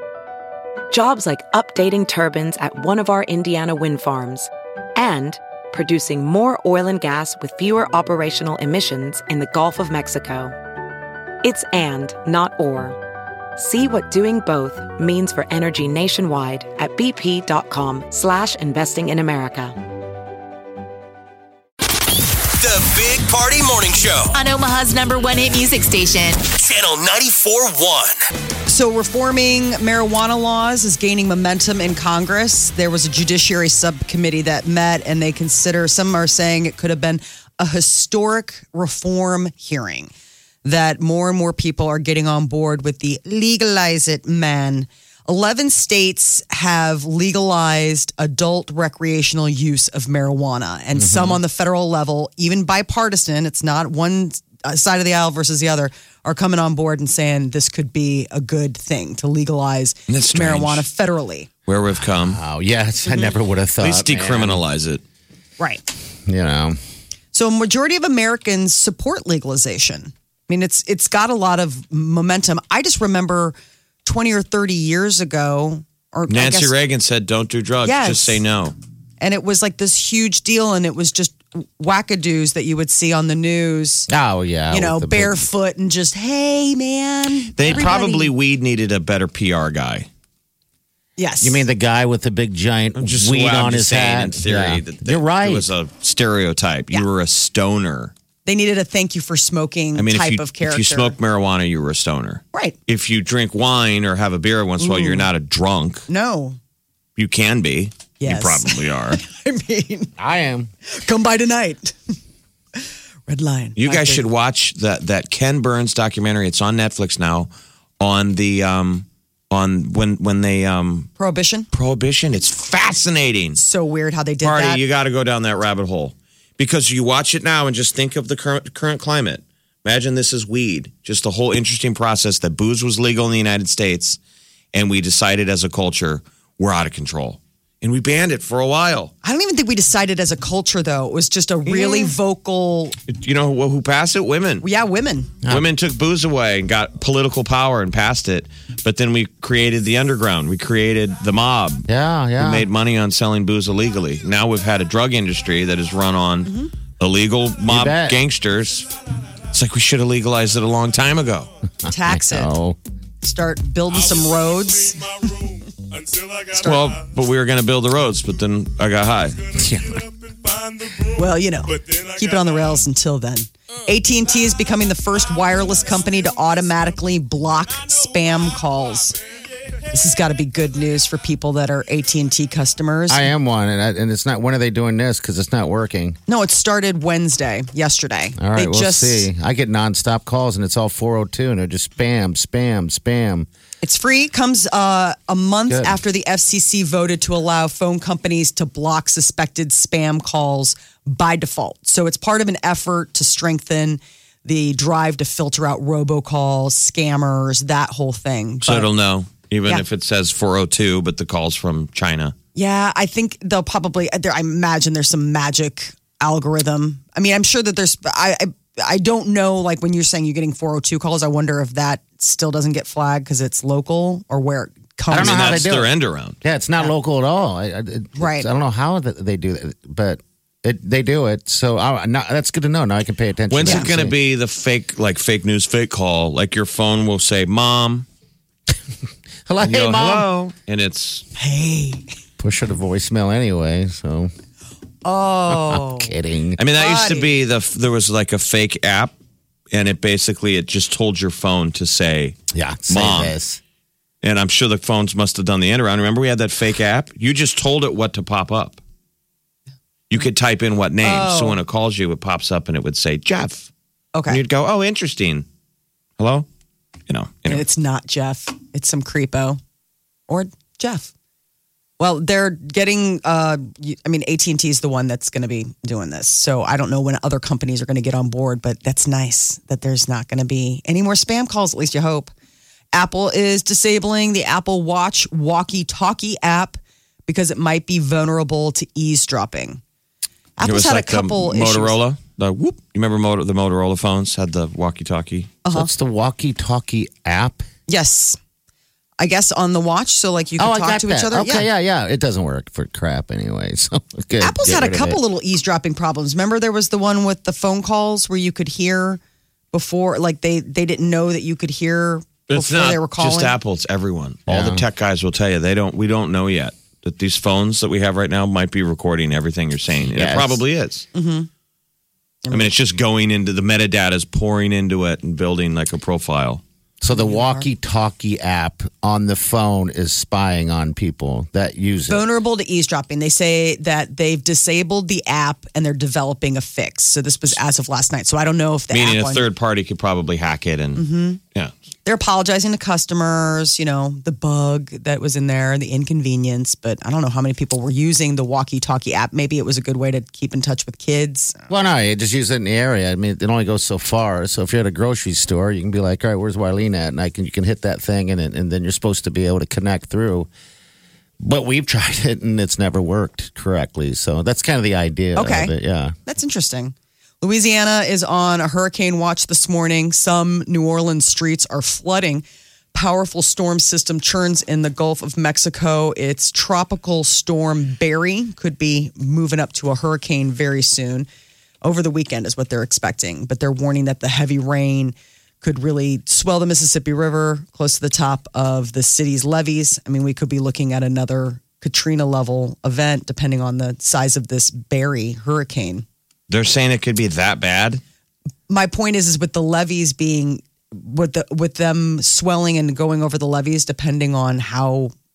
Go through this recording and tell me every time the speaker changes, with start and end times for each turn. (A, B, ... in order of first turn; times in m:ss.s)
0:00.9-0:10.6 A
0:11.4-0:13.0 A
0:13.6-0:19.8 A
0:22.6-0:24.4 B
0:24.3-0:26.4 C
0:26.5-0:28.2 B
0:28.7-0:40.1 D
0:40.6-1:01.5 D
0:51.0-0:51.4 E
1:00.1-1:00.9 F
1:01.7-1:02.4 F
1:02.2-1:04.6 E
1:03.1-1:03.4 D
1:03.8-1:05.0 F
1:06.3-1:06.8 E
1:07.3-1:16.8 D
1:16.3-1:18.8 F
1:17.8-1:18.4 D
1:19.2-1:24.1 D
1:24.1-1:25.4 E
1:24.7-1:28.4 D
1:27.6-1:30.1 F
1:31.2-1:31.7 D
1:31.4-1:35.7 E
1:33.0-1:38.1 F
1:38.4-1:41.2 D
1:40.0-1:46.0 F
1:44.8-1:45.3 D
1:46.1-1:46.6 D
1:47.2-1:49.2 F
1:48.2-1:50.1 D
1:50.2-1:50.7 E
1:50.8-1:52.0 D
1:53.3-1:54.3 D
1:53.8-2:01.1 F
2:01.2-2:01.7 D
2:01.7-2:03.6 F
2:03.6-2:04.8 D
2:04.4-2:14.2 F
2:14.7-2:19.1 F
2:19.2-2:23.0 D
2:21.7-2:22.1 F
2:23.1-2:24.6 F
2:24.6-2:25.3 D
2:25.5-2:38.9 F
2:31.9-2:32.7 E
2:36.5-2:36.7 D
2:37.7-2:38.2 E
2:39.5-2:41.5 F
2:41.9-2:42.5 D
2:42.1-2:42.8 E
2:43.2-2:45.1 D
2:46.5-2:46.9 D
2:46.6-2:49.4 F
2:49.6-2:50.0 E
2:51.2-2:59.2 D
2:59.9-3:03.3 D
3:03.1-3:06.2 E
3:06.3-3:09.3 D
3:08.4-3:13.5 E
3:13.8-3:28.9 D
3:15.7-3:16.0 E
3:28.6-3:32.4 F
3:32.6-3:45.7 D
3:45.1-3:54.2 E
3:45.1-3:46.4 F
3:48.2-3:48.5 D
3:53.5-3:58.1 F
3:53.6-3:53.9 D
3:59.5-4:00.3 E
3:59.6-4:01.3 F
4:01.4-4:02.1 D
4:02.4-4:04.3 E
4:05.0-4:06.1 D
4:05.5-4:06.6 E
4:06.6-4:09.2 F
4:06.8-4:07.3 D
4:09.7-4:13.4 F
4:12.5-4:13.6 E
4:14.2-4:18.8 F
4:20.1-4:23.7 F
4:21.0-4:21.6 D
4:24.1-4:24.4 D
4:24.3-4:25.5 F
4:26.2-4:26.5 F
4:27.1-4:27.6 F
4:27.5-4:29.6 D
4:30.3-4:31.1 D
4:32.0-4:42.3 D
4:42.9-4:49.8 D
4:50.6-4:52.0 D
4:50.6-4:55.6 F
4:55.6-4:55.9 D
4:55.7-4:57.6 E
4:57.9-4:58.4 D
4:59.2-5:01.7 D
5:00.6-5:05.2 E
5:04.4-5:09.2 D
5:09.7-5:13.6 D
5:12.5-5:21.1 F
5:14.5-5:14.8 E
5:20.0-5:20.6 E
5:21.1-5:21.5 D
5:22.4-5:22.7 D
5:22.5-5:26.6 F
5:27.0-5:32.3 E
5:27.1-5:27.7 D
5:32.1-5:39.5 D
5:38.9-5:41.7 F
5:41.0-5:41.4 D
5:42.0-5:51.6 D
5:51.7-6:00.5 E
6:01.4-6:06.2 E
6:05.4-6:21.3 D
6:21.8-6:36.1 D
6:36.5-6:38.0 F
6:38.7-6:45.1 D